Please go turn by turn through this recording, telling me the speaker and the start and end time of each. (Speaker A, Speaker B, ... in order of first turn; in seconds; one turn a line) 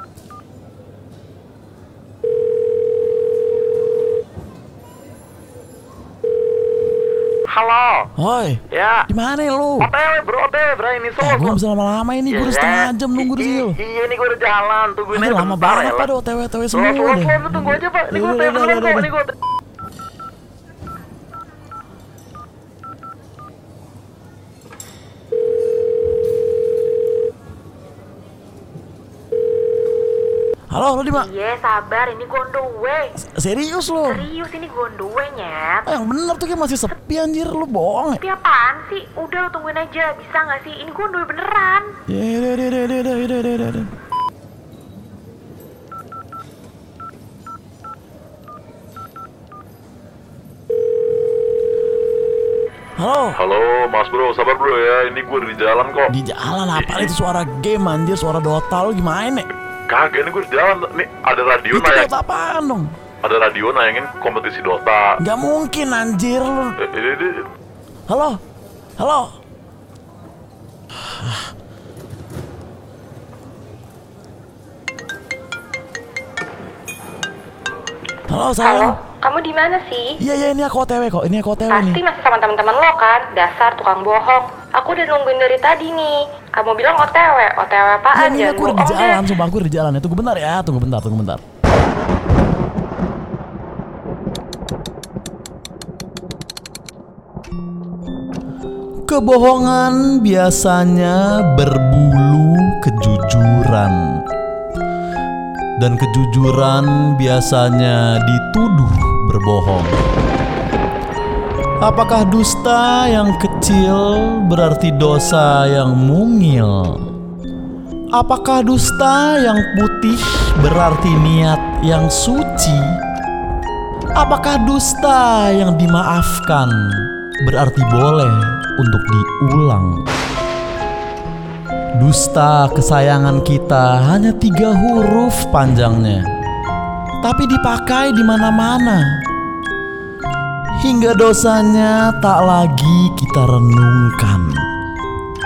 Speaker A: 7.5-8.1
Speaker B: 8.2-9.9
Speaker A: 8.7-9.1
Speaker A: 9.8-11.6
Speaker B: 11.2-13.8
Speaker A: 12.3-16.1
Speaker B: 15.1-19.1
Speaker A: 16.7-19.3
Speaker B: 30.7-31.3
Speaker C: 31.2-33.1
Speaker B: 33.2-34.3
Speaker C: 34.2-35.9
Speaker B: 35.9-38.2
Speaker C: 39.2-40.3
Speaker C: 41.1-41.9
Speaker B: 42.1-43.9
Speaker B: 53.0-53.4
Speaker D: 53.4-56.1
Speaker B: 56.1-59.5
Speaker D: 56.8-57.1
Speaker D: 59.9-62.1
Speaker B: 61.7-62.9
Speaker D: 63.2-65.2
Speaker B: 65.2-66.8
Speaker D: 66.8-67.5
Speaker B: 68.1-68.4
Speaker B: 69.0-69.3
Speaker B: 78.3-79.0
Speaker E: 78.6-80.2
Speaker B: 80.2-82.0
Speaker E: 81.7-89.2
Speaker B: 88.1-91.4
Speaker B: 99.1-104.2
Speaker B: 105.8-110.0
Speaker B: 111.8-117.0
Speaker B: 118.2-123.0
Speaker B: 124.2-130.0
Speaker B: 132.0-136.2
Speaker B: 137.2-139.2
Speaker B: 140.8-144.6